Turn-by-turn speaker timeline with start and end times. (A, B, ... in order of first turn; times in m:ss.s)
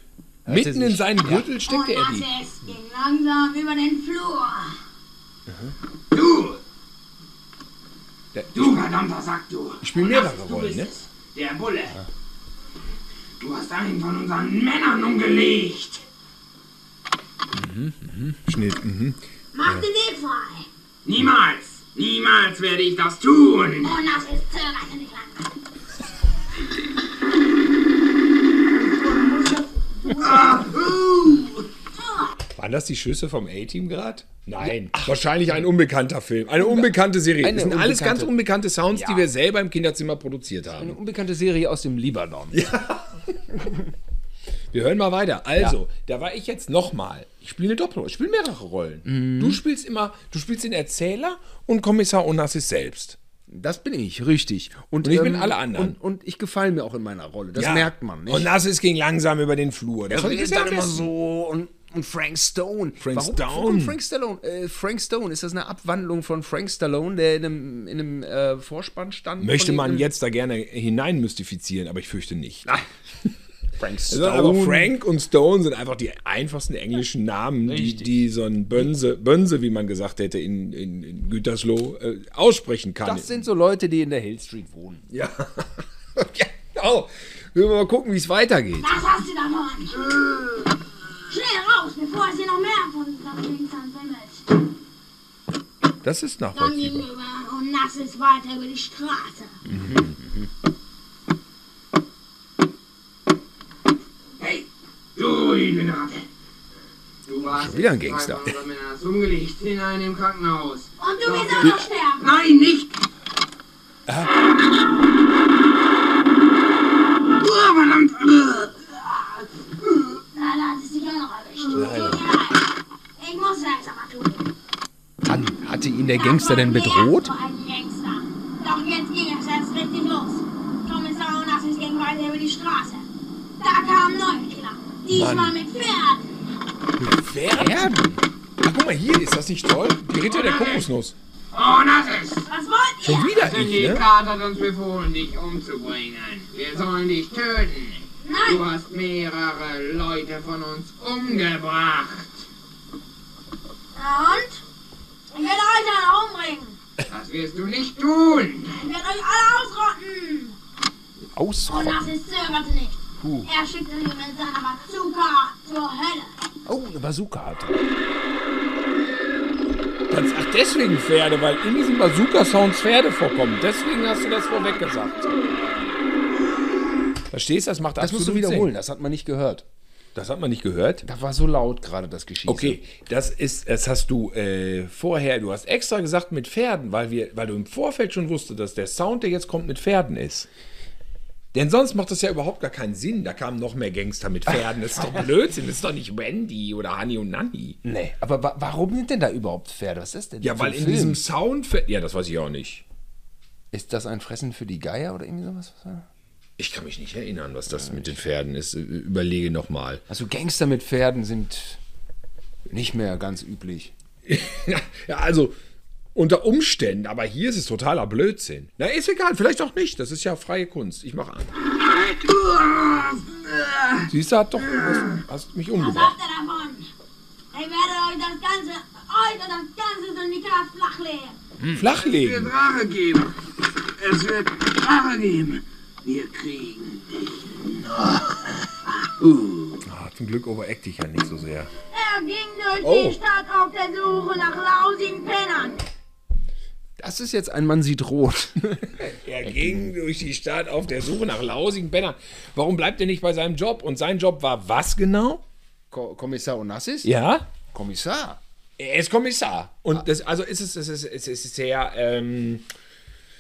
0:00.5-0:01.5 A
0:00.5-0:02.3 B
0:01.7-0:04.8 C
0:05.5-0:05.8 B
0:06.1-0:06.6 D
0:08.3-0:08.8 B
0:08.6-0:12.0 D
0:09.8-0:10.9 B
0:13.4-0:16.0 D
0:17.5-0:19.8 B
0:19.5-0:20.7 C
0:21.0-0:24.0 D
0:23.8-0:25.5 C
0:29.0-0:29.4 D
0:30.1-0:31.7 D
0:32.0-0:32.3 C
0:32.6-0:41.0 B
0:36.6-0:38.3 A
0:38.9-0:39.3 A
0:40.8-0:42.6 A
0:42.5-0:43.7 B
0:44.7-0:53.2 B
0:49.1-0:49.6 A
0:53.5-0:58.5 A
0:55.0-0:56.0 B
0:57.6-1:01.1 B
1:00.1-1:10.1 A
1:03.0-1:04.0 B
1:09.4-1:12.7 B
1:13.8-1:14.9 A
1:14.1-1:23.4 B
1:17.7-1:18.3 A
1:23.0-1:25.1 A
1:25.1-1:29.0 B
1:28.8-1:30.1 C
1:31.3-1:34.5 C
1:36.0-1:37.0 B
1:36.6-1:39.6 C
1:39.7-1:40.2 B
1:39.7-1:40.5 A
1:44.4-1:46.3 D
1:47.2-1:53.0 D
1:47.6-1:48.5 B
1:47.6-1:48.4 A
1:51.0-1:52.4 C
1:54.1-1:54.4 B
1:57.4-1:59.5 D
2:00.3-2:04.5 C
2:01.7-2:02.3 B
2:05.2-2:07.3 A
2:06.1-2:13.0 C
2:13.6-2:16.3 C
2:15.1-2:15.6 B
2:17.0-2:18.0 B
2:17.5-2:18.2 A
2:18.6-2:21.2 B
2:20.3-2:20.9 D
2:21.5-2:22.5 D
2:22.5-2:23.4 C
2:23.0-2:24.0 B
2:23.4-2:32.4 D
2:28.2-2:28.7 C
2:34.0-2:34.6 C
2:35.3-2:36.8 C
2:37.1-2:38.8 D
2:38.7-2:40.6 C
2:41.4-2:42.1 A
2:41.7-2:46.3 C
2:43.2-2:43.5 A
2:46.7-2:47.8 A
2:50.1-2:55.4 B
2:57.3-2:58.7 B
2:58.0-2:59.6 A
3:00.2-3:01.1 B
3:01.0-3:02.8 A
3:02.5-3:10.5 B
3:11.5-3:17.8 B
3:17.8-3:21.2 A
3:20.4-3:22.8 B
3:23.7-3:26.1 A
3:26.6-3:30.0 B
3:30.1-3:31.8 A
3:32.7-3:33.9 A
3:34.2-3:35.6 B
3:36.2-3:41.5 B
3:41.8-3:45.2 D
3:44.1-3:46.2 B
3:45.8-3:46.9 C
3:47.5-3:51.4 C
3:51.7-3:52.5 B
3:51.9-3:59.8 D
3:59.8-4:01.7 B
4:01.9-4:05.8 C
4:02.8-4:03.2 B
4:07.0-4:09.9 A
4:09.0-4:15.4 B
4:15.9-4:17.1 A
4:17.0-4:17.5 B
4:17.7-4:18.4 A
4:18.8-4:22.7 B